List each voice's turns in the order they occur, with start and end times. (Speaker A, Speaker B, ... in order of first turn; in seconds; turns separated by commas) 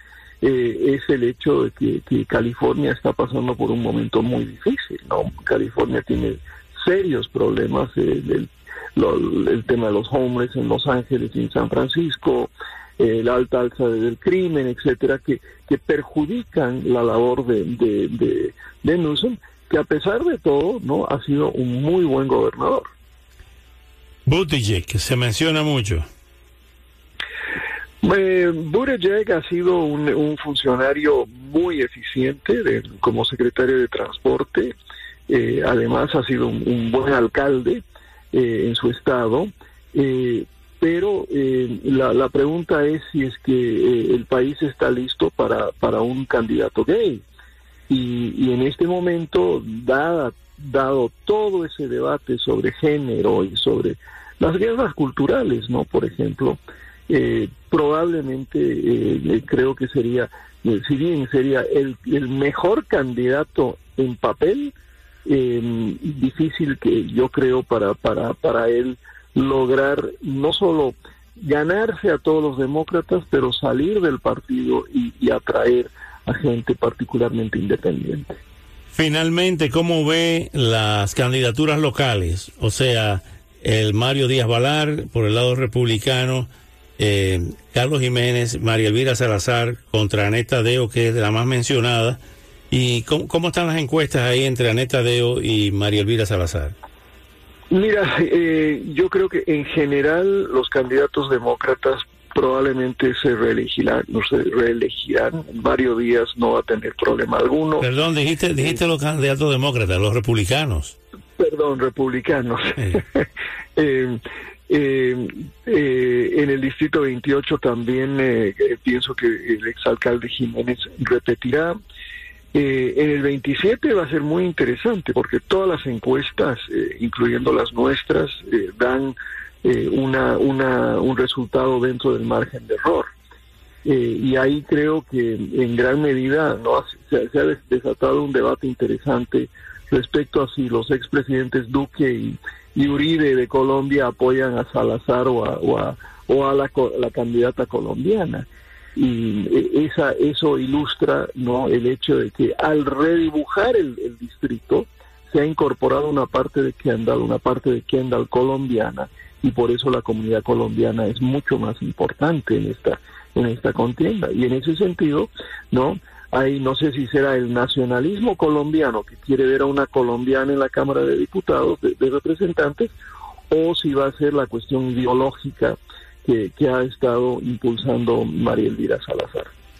Speaker A: 0.4-22.9, Speaker B: 24.2-26.0, Speaker A: 28.0-34.7, Speaker A: 35.3-47.2, Speaker A: 47.9-64.7, Speaker A: 65.2-78.4, Speaker B: 78.9-92.2, Speaker B: 92.7-96.7, Speaker A: 97.7-107.8, Speaker B: 107.8-110.9, Speaker A: 111.4-121.8, Speaker A: 122.5-133.1, Speaker A: 133.8-172.9, Speaker A: 173.5-179.5